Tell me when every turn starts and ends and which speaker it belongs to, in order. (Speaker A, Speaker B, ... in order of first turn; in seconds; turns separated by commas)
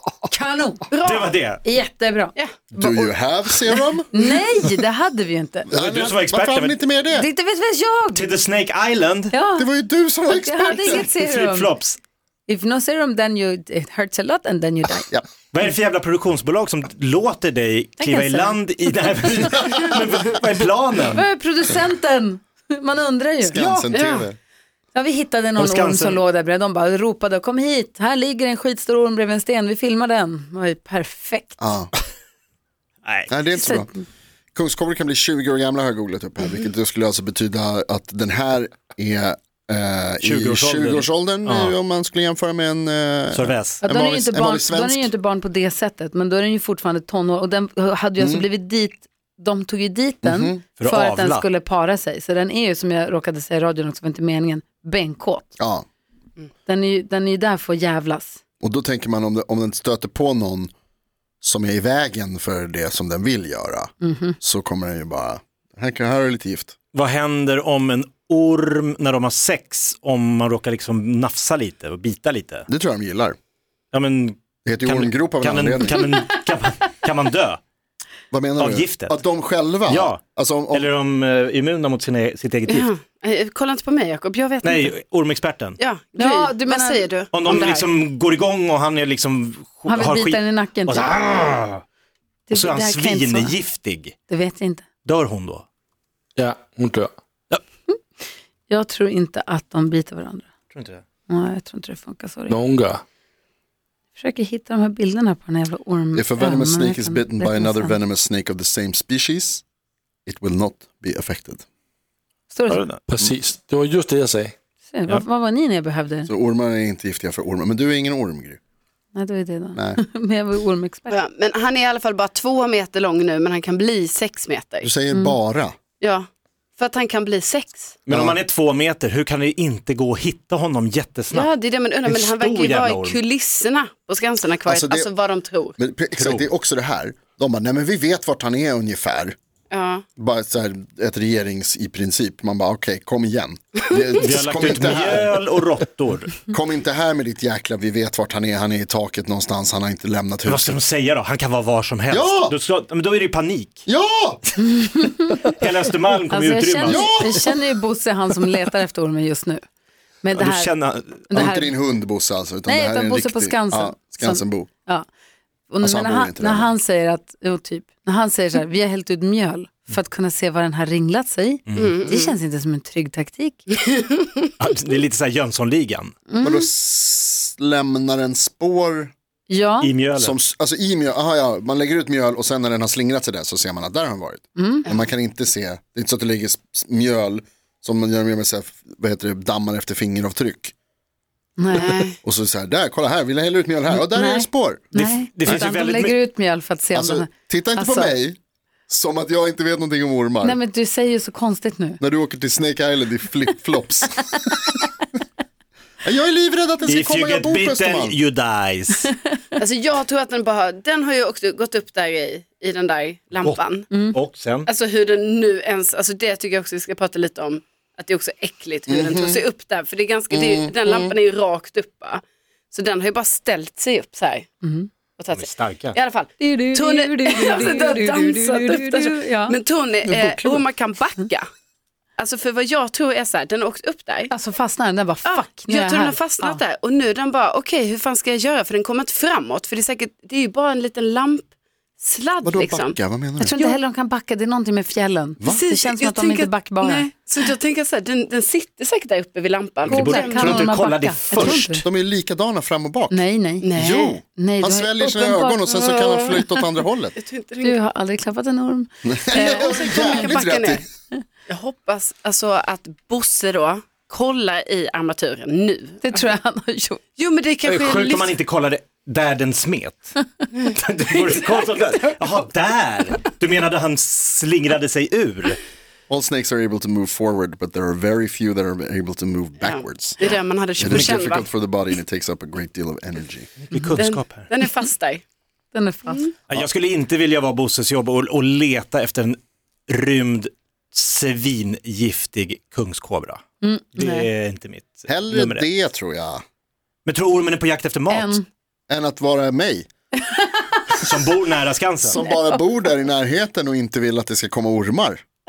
Speaker A: 0.3-0.9, Speaker B: 0.9-1.3, Speaker C: 1.0-1.6, Speaker A: 1.6-3.1, Speaker D: 2.8-4.7, Speaker A: 4.1-5.7, Speaker D: 5.7-7.3, Speaker C: 5.7-6.8, Speaker A: 7.1-8.3, Speaker C: 8.1-9.3, Speaker A: 9.3-9.7, Speaker D: 9.6-11.1, Speaker A: 10.3-11.7, Speaker C: 10.8-12.0, Speaker A: 12.5-15.1, Speaker C: 15.5-21.2, Speaker A: 18.0-18.6, Speaker A: 21.1-23.6, Speaker D: 23.5-24.4, Speaker C: 23.5-23.9, Speaker B: 23.9-24.3, Speaker A: 24.9-31.6, Speaker C: 25.6-26.2, Speaker D: 31.6-31.9, Speaker C: 33.0-33.3, Speaker D: 33.3-33.9, Speaker A: 33.6-34.0, Speaker D: 34.5-45.1, Speaker C: 40.2-41.8, Speaker C: 43.3-43.8, Speaker A: 43.8-55.6, Speaker D: 48.2-48.5, Speaker D: 50.2-50.6, Speaker C: 50.8-51.5, Speaker D: 55.6-55.9, Speaker A: 56.6-58.4, Speaker D: 58.6-60.7, Speaker D: 61.4-66.8, Speaker A: 64.0-64.4, Speaker C: 66.9-72.7, Speaker D: 72.7-73.4, Speaker C: 73.9-77.6, Speaker D: 74.7-76.1, Speaker D: 78.3-80.9, Speaker C: 78.6-79.2, Speaker C: 79.9-82.9, Speaker B: 82.7-84.9, Speaker C: 84.6-85.8, Speaker B: 85.8-87.9, Speaker A: 86.2-87.1, Speaker C: 87.3-91.8, Speaker A: 89.9-91.2, Speaker A: 92.5-93.6, Speaker C: 92.5-94.1, Speaker A: 94.3-94.9, Speaker C: 95.0-95.7, Speaker E: 96.4-97.1, Speaker A: 98.7-100.5, Speaker C: 100.7-101.0, Speaker A: 101.3-102.6, Speaker E: 102.5-103.0, Speaker A: 104.2-108.0, Speaker D: 106.1-109.6, Speaker D: 110.3-111.6, Speaker A: 112.5-112.8, Speaker C: 112.7-113.0, Speaker E: 112.7-114.5, Speaker A: 114.9-116.3, Speaker D: 116.3-118.6, Speaker A: 119.1-121.2, Speaker D: 119.8-120.0, Speaker B: 121.1-124.9, Speaker D: 124.8-125.8, Speaker A: 125.1-125.4, Speaker B: 126.0-128.0, Speaker C: 128.1-131.5, Speaker D: 128.1-128.4, Speaker B: 131.3-135.8, Speaker C: 132.0-133.2, Speaker D: 134.7-135.1, Speaker D: 135.8-139.4, Speaker C: 136.2-136.5, Speaker B: 139.7-140.1, Speaker D: 140.2-145.4, Speaker C: 144.2-146.5, Speaker D: 146.5-150.8, Speaker C: 150.5-153.8, Speaker D: 152.1-152.6, Speaker D: 153.9-154.4, Speaker A: 154.6-155.6, Speaker C: 155.4-157.4, Speaker A: 156.3-159.6, Speaker D: 156.9-157.4, Speaker A: 160.2-160.7, Speaker C: 160.3-161.5, Speaker A: 161.3-161.7, Speaker D: 161.3-164.7, Speaker A: 162.7-165.1, Speaker A: 165.7-173.7, Speaker D: 165.8-166.7, Speaker C: 171.7-172.0, Speaker B: 171.7-172.3, Speaker B: 173.8-174.5, Speaker C: 174.6-176.1, Speaker A: 176.3-176.7, Speaker D: 176.4-179.1, Speaker A: 179.5-179.9, Speaker C: 179.8-180.4, Speaker D: 180.2-190.7, Speaker A: 184.6-184.9, Speaker A: 191.6-192.1, Speaker B: 191.7-192.2, Speaker D: 192.2-194.9, Speaker A: 193.9-198.2, Speaker C: 194.9-196.2, Speaker D: 196.9-198.4, Speaker D: 198.9-200.6, Speaker A: 200.4-202.0, Speaker D: 202.0-204.8, Speaker D: 206.0-208.2, Speaker C: 206.9-209.1, Speaker B: 209.6-213.9, Speaker A: 213.9-214.2, Speaker C: 214.1-214.7, Speaker B: 214.7-224.5, Speaker D: 218.9-219.4, Speaker D: 220.3-221.1, Speaker A: 224.6-224.9, Speaker B: 225.2-231.5, Speaker C: 225.3-226.0, Speaker A: 226.4-229.6, Speaker D: 230.1-230.6, Speaker B: 232.2-234.3, Speaker A: 234.3-236.6, Speaker B: 235.2-241.5, Speaker B: 242.0-243.0, Speaker D: 242.4-243.6, Speaker A: 243.4-247.4, Speaker B: 245.4-250.6, Speaker A: 249.9-251.8, Speaker C: 249.9-251.7, Speaker D: 251.3-257.2, Speaker A: 253.1-253.7, Speaker B: 253.6-254.2, Speaker A: 254.3-255.7, Speaker B: 255.7-256.5, Speaker B: 257.1-257.8, Speaker A: 257.6-260.3, Speaker D: 259.1-260.8, Speaker B: 259.3-260.9, Speaker B: 261.5-266.0, Speaker A: 266.0-267.0, Speaker B: 267.2-268.4, Speaker C: 267.6-275.6, Speaker D: 276.1-283.5, Speaker B: 279.6-281.5, Speaker C: 280.9-281.2, Speaker C: 283.6-284.5, Speaker B: 284.0-285.2, Speaker A: 285.7-286.3, Speaker C: 286.5-293.4, Speaker A: 293.6-294.3, Speaker C: 293.9-295.7, Speaker D: 295.1-296.4, Speaker C: 297.1-298.4, Speaker A: 298.1-298.4, Speaker D: 298.9-299.9, Speaker A: 300.3-300.8, Speaker C: 300.9-302.2, Speaker D: 302.1-305.2